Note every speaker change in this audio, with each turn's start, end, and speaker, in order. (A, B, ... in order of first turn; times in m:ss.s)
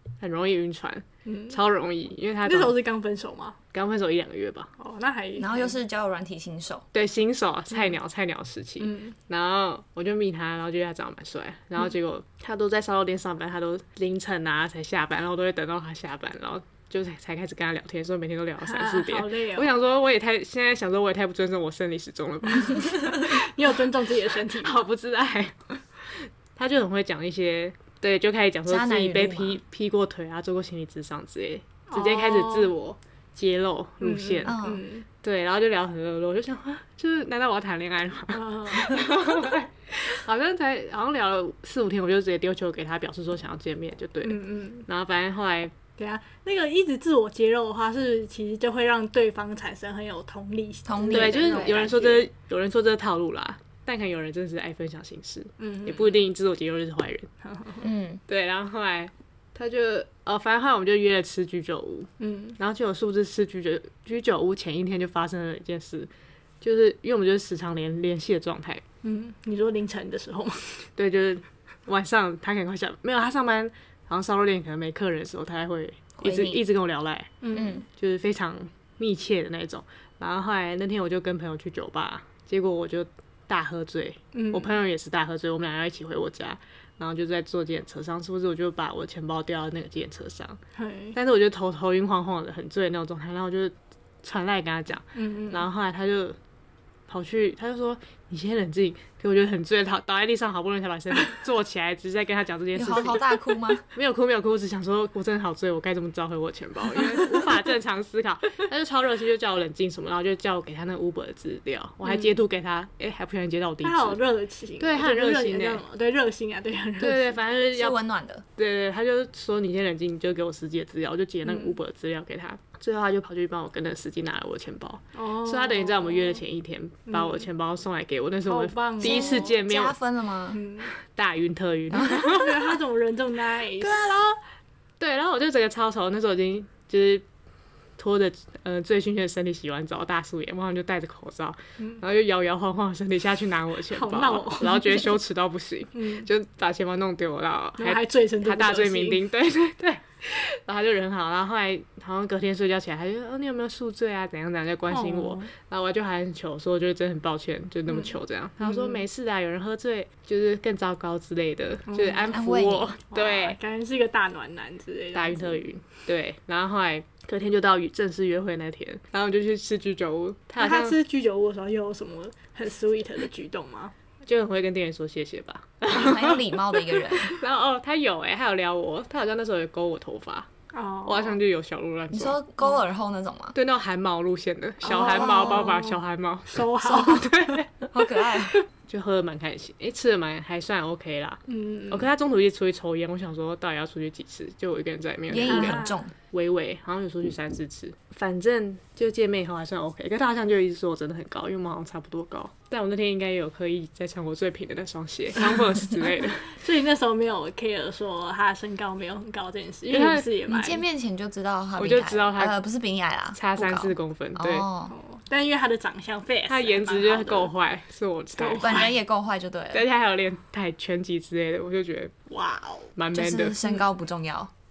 0:00.2-0:02.8 A
0:01.2-0:01.6 B
0:02.4-0:03.6 B
0:03.7-0:04.7 A
0:04.8-0:05.7 B
0:05.4-0:06.8 C
0:06.9-0:23.7 A
0:08.8-0:09.2 B
0:18.6-0:19.7 B
0:22.7-0:24.8 B
0:24.5-0:34.6 A
0:28.7-0:29.6 C
0:31.9-0:32.7 B
0:34.0-0:35.0 B
0:34.4-0:34.8 C
0:35.2-0:45.7 A
0:38.3-0:39.1 B
0:44.2-0:44.8 B
0:46.0-0:52.3 B
0:50.8-0:51.8 C
0:51.1-0:57.3 A
0:55.6-0:56.2 B
0:57.4-0:57.8 B
0:57.8-0:58.2 C
0:58.3-1:06.1 A
1:02.2-1:02.6 B
1:06.6-1:08.8 A
1:09.0-1:10.9 B
1:11.0-1:17.4 A
1:16.2-1:16.6 C
1:17.4-1:17.8 B
1:17.5-1:17.8 C
1:17.9-1:30.6 A
1:24.3-1:24.7 B
1:30.8-1:31.2 B
1:31.1-1:36.4 A
1:35.1-1:35.7 B
1:37.1-1:43.2 A
1:42.7-1:43.9 C
1:43.9-1:54.2 A
1:52.0-1:52.3 B
1:53.8-1:57.4 B
1:54.8-1:55.8 A
1:57.0-1:58.0 A
1:57.7-1:58.4 C
1:58.6-2:10.0 A
2:01.4-2:01.8 B
2:05.1-2:06.4 B
2:07.1-2:07.5 B
2:08.5-2:09.6 B
2:09.0-2:10.6 C
2:10.5-2:10.9 B
2:10.9-2:12.8 A
2:11.9-2:12.2 C
2:12.0-2:14.2 B
2:13.8-2:14.4 A
2:15.0-2:17.2 A
2:18.0-2:43.6 A
2:23.9-2:25.1 B
2:25.9-2:26.3 B
2:27.8-2:29.2 B
2:34.9-2:35.5 B
2:37.9-2:39.0 B
2:41.9-2:42.4 B
2:42.3-2:42.9 C
2:43.0-2:45.6 B
2:45.1-2:51.0 A
2:50.6-2:53.9 B
2:54.2-3:00.5 A
2:55.9-2:57.4 C
3:00.7-3:01.4 B
3:01.0-3:02.4 A
3:02.1-3:03.6 C
3:03.5-3:07.9 A
3:04.8-3:07.6 B
3:07.9-3:08.6 C
3:08.9-3:11.4 A
3:11.5-3:12.1 B
3:11.9-3:26.6 A
3:15.3-3:16.1 C
3:15.4-3:16.0 B
3:26.5-3:30.8 B
3:29.9-3:30.3 A
3:30.5-3:34.9 C
3:31.8-3:32.6 A
3:33.3-3:34.7 A
3:34.9-3:37.5 B
3:36.5-3:38.9 A
3:38.4-3:38.9 B
3:38.6-3:39.8 C
3:39.7-3:42.1 A
3:42.3-3:42.9 B
3:43.0-3:43.6 A
3:43.1-3:44.5 C